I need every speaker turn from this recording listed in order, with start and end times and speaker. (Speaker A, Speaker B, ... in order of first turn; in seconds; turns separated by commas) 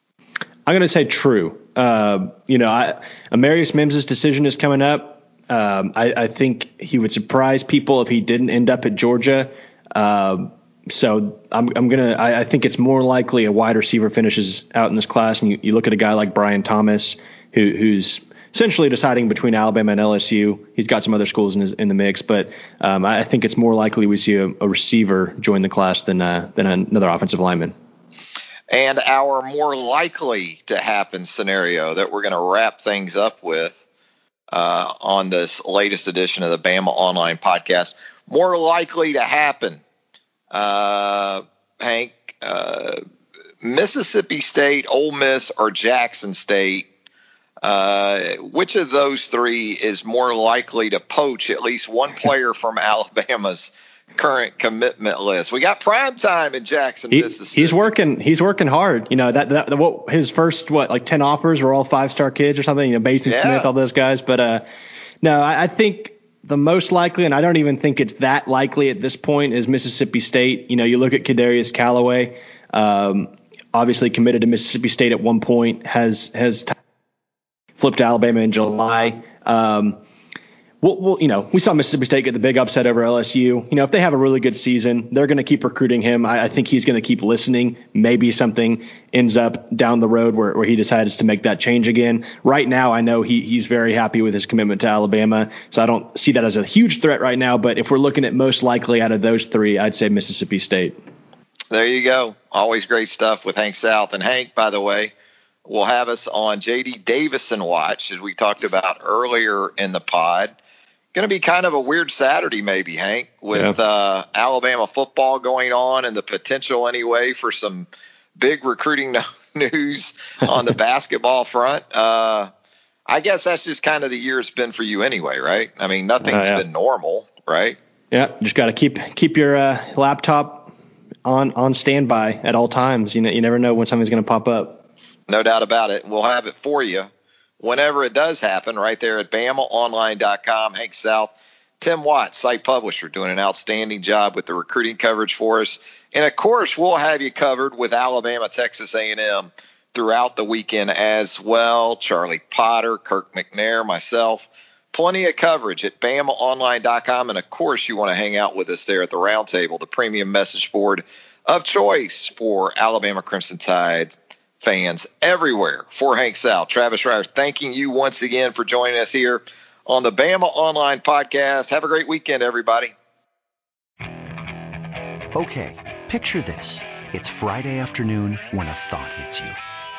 Speaker A: 0.7-27.7, Speaker B: 28.7-33.8, Speaker B: 34.5-39.8, Speaker B: 40.5-43.0, Speaker B: 43.6-46.9, Speaker B: 47.6-57.8, Speaker A: 57.1-64.7, Speaker B: 63.2-63.7, Speaker A: 65.2-76.8, Speaker A: 77.8-80.0, Speaker A: 80.8-101.0, Speaker B: 101.7-105.1, Speaker B: 105.7-110.5, Speaker B: 111.1-122.5, Speaker B: 123.1-127.8, Speaker A: 126.3-126.6, Speaker A: 128.1-130.7, Speaker A: 131.2-134.8, Speaker B: 135.3-137.1, Speaker B: 137.6-172.9, Speaker C: 175.3-179.6